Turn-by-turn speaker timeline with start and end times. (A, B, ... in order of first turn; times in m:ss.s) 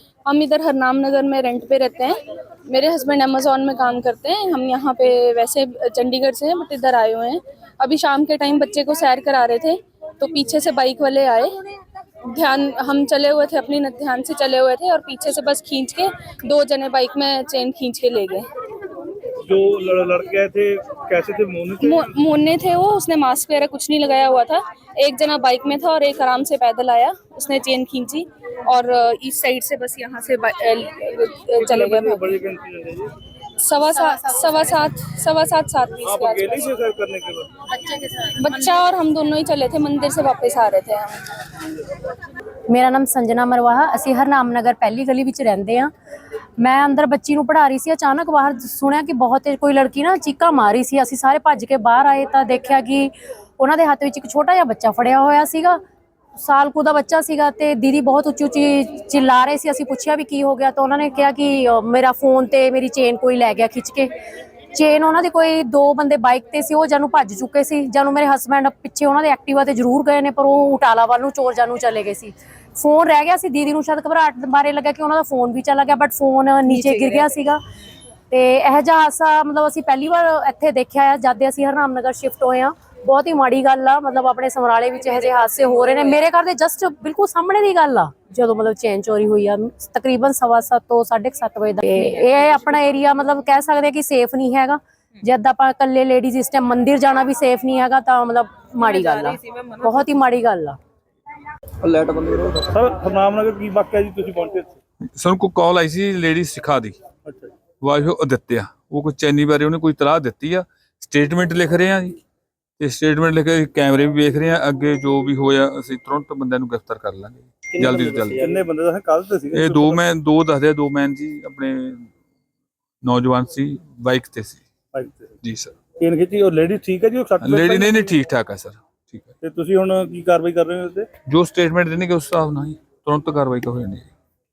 0:00.2-0:11.5 A
0:12.3-0:18.5 A
0:19.4-0:22.1 B
0:21.8-0:32.5 A
0:31.6-0:33.1 B
0:33.6-0:36.7 A
0:34.0-0:34.7 C
0:36.0-0:37.5 B
0:37.7-0:38.7 C
0:38.4-0:41.2 A
0:42.7-0:45.9 C
0:46.6-0:55.8 C
0:56.4-1:04.1 C
1:04.7-1:17.6 C
1:18.3-1:40.8 C
1:41.8-1:44.8 B
1:45.1-1:47.0 D
1:47.2-1:47.5 B
1:47.8-1:52.2 D
1:52.8-1:58.5 D
1:57.7-2:00.0 B
1:59.5-2:02.1 D
2:03.0-2:04.6 D
2:04.9-2:05.3 B
2:05.4-2:05.7 D
2:06.0-2:08.1 B
2:07.4-2:09.3 D
2:09.4-2:11.1 B
2:11.3-2:14.1 D